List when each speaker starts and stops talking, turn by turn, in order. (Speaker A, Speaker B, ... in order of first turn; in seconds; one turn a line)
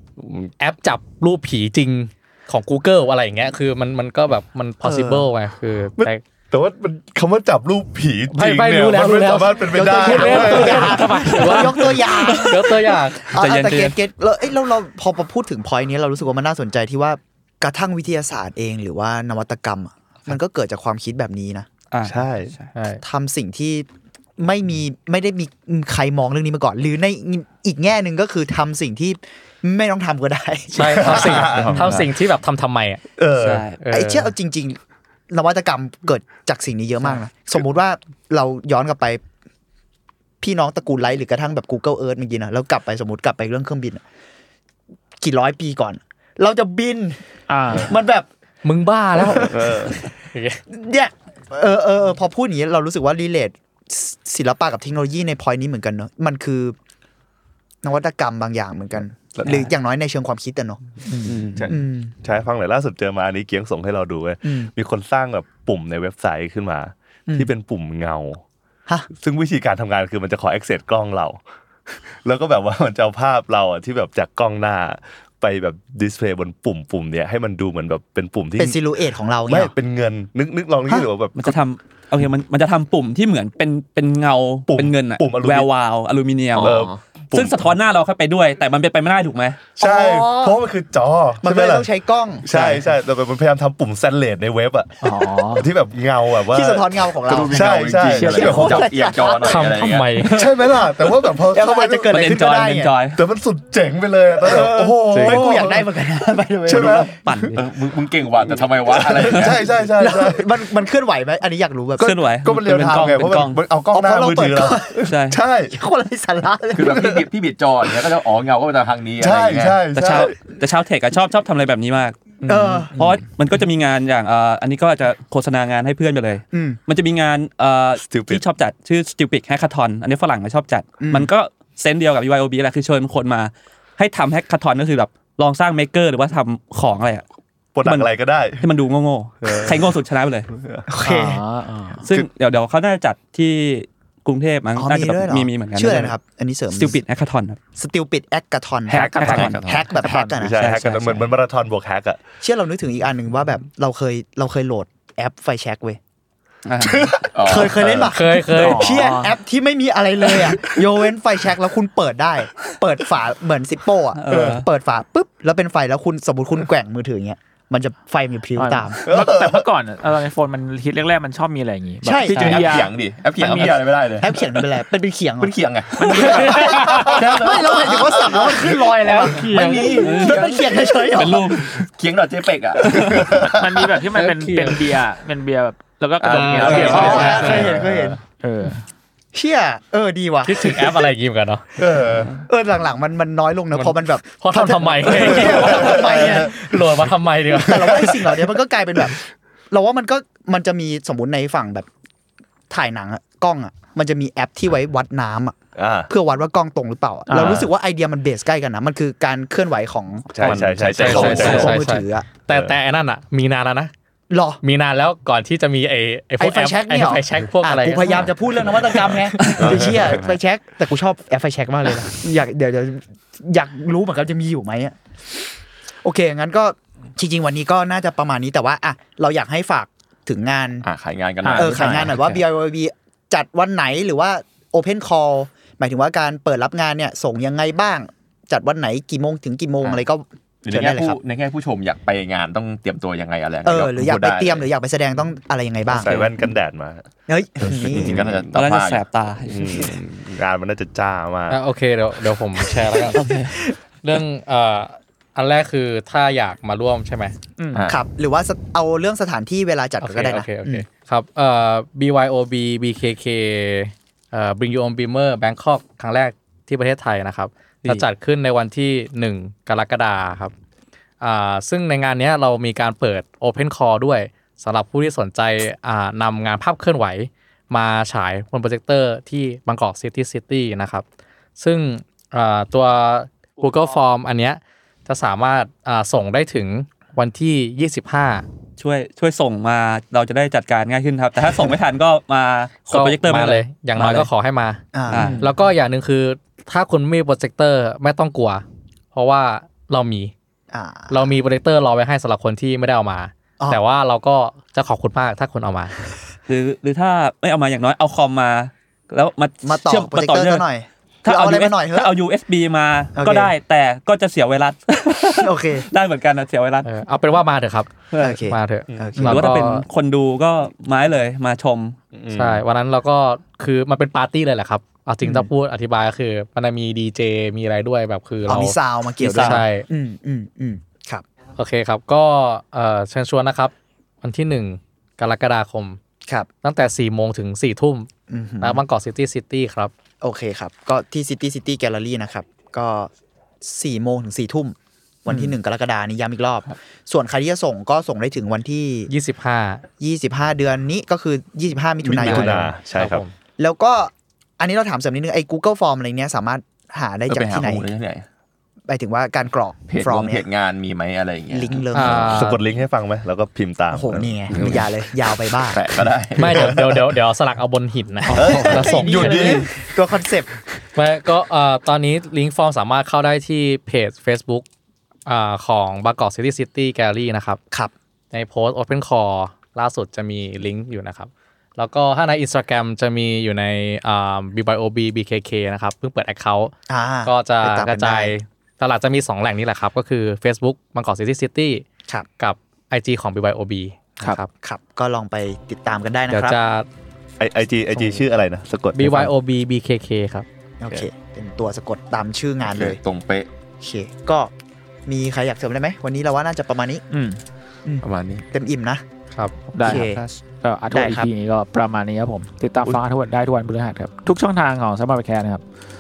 Speaker A: 0.2-0.5
Speaker B: 0.6-6.2
Speaker C: 4.8-5.3
Speaker A: 6.0-11.1
Speaker B: 8.3-13.5
Speaker C: 9.7-21.7
Speaker D: 11.4-12.7
Speaker D: 13.3-13.9
Speaker D: 21.9-22.7
Speaker A: 22.1-22.5
Speaker B: 22.8-23.0
Speaker C: 23.0-31.8
Speaker B: 30.7-33.0
Speaker A: 31.0-32.0
Speaker E: 31.3-32.1
Speaker A: 33.2-33.7
Speaker D: 33.4-33.8
Speaker B: 33.8-34.3
Speaker C: 33.9-39.2
Speaker C: 40.4-44.0
Speaker C: 45.2-47.2
Speaker F: 47.5-48.0
Speaker C: 47.8-48.3
Speaker B: 48.6-49.8
Speaker C: 49.2-49.6
Speaker A: 49.3-50.0
Speaker B: 50.3-50.6
Speaker C: 50.7-56.8
Speaker C: 57.8-62.1
Speaker A: 59.4-59.7
Speaker A: 61.5-68.4
Speaker C: 64.4-64.7
Speaker A: 69.1-78.8
Speaker C: 78.6-79.7
Speaker A: 79.5-81.5
Speaker D: 81.4-89.6
Speaker A: 84.7-85.7
Speaker E: 86.6-87.0
Speaker A: 86.6-87.7
Speaker A: 89.8-91.9
Speaker C: 89.8-90.6
Speaker C: 91.4-92.9
Speaker A: 92.4-98.9
Speaker F: 95.0-95.7
Speaker C: 96.5-99.7
Speaker E: 97.3-100.2
Speaker F: 98.1-99.0
Speaker B: 99.5-100.3
Speaker D: 100.2-100.8
Speaker A: 100.3-102.3
Speaker C: 101.5-103.0
Speaker D: 102.1-103.2
Speaker A: 103.1-105.9
Speaker C: 104.4-107.1
Speaker B: 105.1-105.4
Speaker A: 106.7-107.5
Speaker D: 106.7-107.6
Speaker E: 107.5-109.7
Speaker A: 108.9-110.5
Speaker C: 110.0-112.2
Speaker D: 112.0-113.6
Speaker A: 112.4-115.8
Speaker C: 113.9-115.1
Speaker D: 115.1-115.4
Speaker C: 115.7-117.1
Speaker E: 116.8-119.8
Speaker A: 119.2-120.4
Speaker D: 119.9-122.3
Speaker F: 122.4-123.2
Speaker C: 122.5-123.0
Speaker D: 122.9-137.2
Speaker C: 126.5-126.8
Speaker A: 128.0-128.4
Speaker C: 131.0-131.3
Speaker A: 137.7-138.7
Speaker D: 137.8-140.5
Speaker A: 139.4-140.0
Speaker A: 140.5-140.9
Speaker C: 140.9-141.4
Speaker F: 141.0-142.1
Speaker D: 142.0-146.2
Speaker C: 144.8-147.0
Speaker D: 146.7-147.6
Speaker C: 147.8-150.6
Speaker D: 148.9-149.7
Speaker A: 149.0-149.6
Speaker F: 149.1-150.8
Speaker E: 149.4-149.9
Speaker A: 150.4-152.2
Speaker D: 150.6-151.3
Speaker C: 152.4-156.0
Speaker D: 156.7-157.3
Speaker C: 156.8-169.0
Speaker E: 157.3-158.1
Speaker B: 158.1-158.9
Speaker F: 158.6-159.4
Speaker D: 164.2-164.7
Speaker A: 164.3-164.6
Speaker F: 168.6-174.2
Speaker A: 169.1-169.7
Speaker C: 172.0-172.7
Speaker D: 172.3-172.8
Speaker E: 172.3-174.4
Speaker C: 174.2-175.6
Speaker E: 175.4-178.5
Speaker B: 176.2-177.2
Speaker C: 176.4-181.7
Speaker B: 178.8-180.1
Speaker E: 179.3-181.2
Speaker D: 180.0-181.9
Speaker E: 181.8-183.4
Speaker D: 182.9-183.3
Speaker A: 183.1-183.6
Speaker F: 183.4-188.8
Speaker B: 184.2-184.8
Speaker E: 186.2-188.0
Speaker B: 186.6-187.6
Speaker C: 186.6-188.2
Speaker C: 189.3-191.1
Speaker B: 190.4-191.6
Speaker A: 191.8-192.3
Speaker C: 192.5-196.6
Speaker B: 193.7-198.1
Speaker A: 195.2-196.5
Speaker C: 197.5-199.2
Speaker A: 197.7-198.3
Speaker C: 199.7-201.9
Speaker C: 202.7-205.6
Speaker A: 205.8-206.1
Speaker C: 206.1-212.3
Speaker F: 207.3-207.6
Speaker A: 207.3-207.7
Speaker A: 210.3-211.8
Speaker E: 210.4-211.5
Speaker B: 211.0-213.9
Speaker C: 214.3-214.6
Speaker B: 214.6-218.3
Speaker C: 216.4-225.4
Speaker D: 219.4-219.8
Speaker A: 219.5-220.3
Speaker C: 226.0-230.9
Speaker E: 230.8-232.3
Speaker F: 231.4-232.2
Speaker C: 231.5-241.2
Speaker E: 240.6-244.7
Speaker C: 243.6-246.2
Speaker A: 245.9-247.1
Speaker C: 247.3-248.3
Speaker E: 247.7-249.0
Speaker A: 247.9-248.4
Speaker D: 248.5-250.0
Speaker A: 249.5-251.6
Speaker B: 251.5-253.2
Speaker D: 253.1-253.6
Speaker C: 253.3-253.6
Speaker B: 254.0-257.4
Speaker F: 257.6-257.9
Speaker E: 257.7-258.0
Speaker C: 257.9-260.9
Speaker B: 260.0-270.5
Speaker B: 271.2-281.0
Speaker B: 281.6-288.5
Speaker D: 288.8-294.3
Speaker B: 292.9-294.8
Speaker C: 294.9-295.4
Speaker D: 295.1-295.5
Speaker F: 295.1-295.5
Speaker B: 295.4-300.3
Speaker C: 300.7-301.3
Speaker B: 301.1-305.9
Speaker D: 306.5-310.6
Speaker C: 309.6-312.2
Speaker D: 311.2-316.9
Speaker C: 313.2-313.5
Speaker C: 315.4-315.9
Speaker B: 316.8-319.8
Speaker D: 318.1-318.4
Speaker C: 318.2-319.6
Speaker D: 319.2-322.0
Speaker A: 322.2-322.6
Speaker B: 322.3-329.9
Speaker C: 325.2-325.5
Speaker C: 328.5-331.2
Speaker B: 331.6-336.0
Speaker B: 336.6-338.1
Speaker C: 338.3-338.8
Speaker B: 338.6-339.9
Speaker C: 340.2-343.1
Speaker C: 343.6-349.1
Speaker B: 349.1-349.8
Speaker C: 350.0-352.7
Speaker A: 352.1-353.2
Speaker B: 352.3-353.3
Speaker C: 353.6-357.9
Speaker E: 357.3-358.2
Speaker C: 358.9-360.4
Speaker E: 359.9-361.8
Speaker C: 361.5-362.4
Speaker B: 361.9-362.6
Speaker A: 362.3-364.5
Speaker C: 363.9-365.8
Speaker E: 364.5-364.8
Speaker E: 365.7-367.1
Speaker B: 366.4-369.7
Speaker E: 368.3-369.7
Speaker C: 368.3-370.5
Speaker B: 371.0-374.7
Speaker B: 375.3-377.6
Speaker B: 378.3-386.7
Speaker C: 386.9-388.3
Speaker B: 387.2-391.9
Speaker B: 392.4-394.5
Speaker C: 394.2-396.6
Speaker B: 396.3-396.9
Speaker A: 397.4-399.3
Speaker B: 398.9-400.5
Speaker C: 400.8-403.0
Speaker E: 402.6-403.5
Speaker C: 403.8-404.5
Speaker C: 405.1-407.0
Speaker F: 407.1-407.4
Speaker C: 407.9-409.0
Speaker E: 408.0-408.4
Speaker F: 409.7-415.6
Speaker C: 409.8-410.2
Speaker D: 409.8-410.4
Speaker C: 410.9-411.3